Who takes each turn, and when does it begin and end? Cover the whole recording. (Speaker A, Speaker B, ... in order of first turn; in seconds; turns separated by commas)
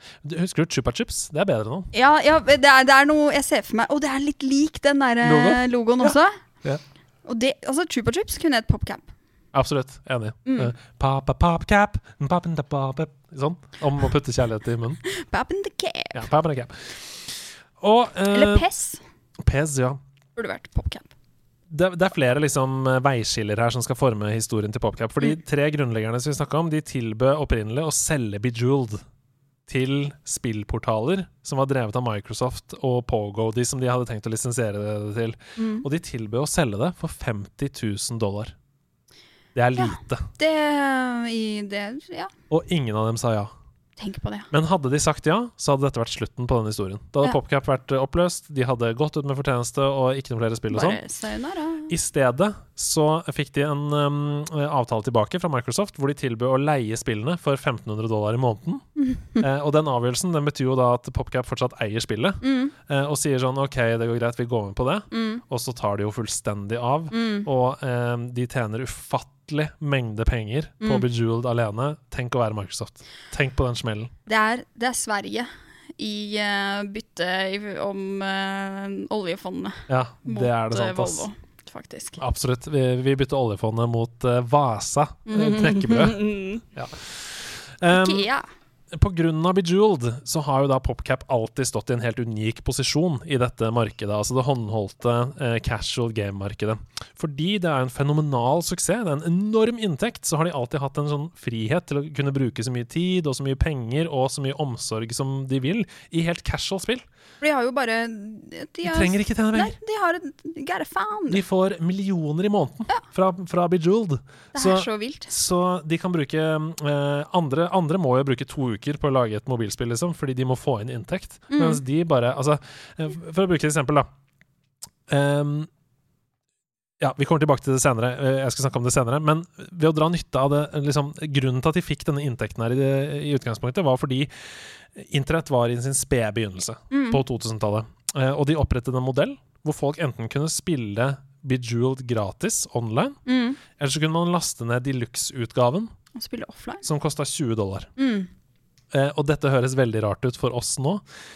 Speaker A: 0.2-1.9, Speaker B: 1.9-6.4, Speaker A: 5.2-6.8, Speaker B: 7.3-9.1, Speaker A: 9.5-15.0, Speaker B: 10.5-10.7, Speaker B: 15.1-16.3, Speaker A: 16.1-18.7, Speaker B: 18.3-19.0, Speaker A: 19.4-20.0, Speaker B: 20.4-21.1, Speaker A: 21.7-29.0, Speaker A: 29.7-38.5, Speaker B: 35.6-35.9, Speaker A: 39.5-40.3, Speaker B: 39.8-42.3, Speaker A: 42.5-43.5, Speaker B: 44.0-44.5, Speaker A: 44.5-51.0, Speaker B: 50.7-51.9, Speaker A: 51.9-58.9, Speaker B: 59.0-59.4, Speaker A: 59.4-74.1, Speaker B: 62.4-62.7, Speaker B: 65.1-65.4, Speaker B: 67.1-67.5, Speaker B: 70.8-71.1, Speaker B: 74.3-82.2, Speaker A: 79.9-81.3, Speaker A: 82.2-86.2, Speaker B: 85.3-86.6, Speaker A: 86.7-88.3, Speaker B: 87.9-88.5, Speaker A: 88.9-107.1, Speaker B: 107.4-111.4, Speaker A: 108.8-109.8, Speaker A: 111.3-124.1, Speaker B: 114.5-115.3, Speaker B: 121.5-121.8, Speaker A: 125.1-125.7, Speaker A: 127.0-143.2, Speaker B: 136.9-137.2, Speaker B: 143.3-143.6, Speaker A: 143.8-145.9, Speaker B: 146.2-146.9, Speaker A: 146.8-147.9, Speaker B: 148.0-148.3, Speaker A: 148.9-151.0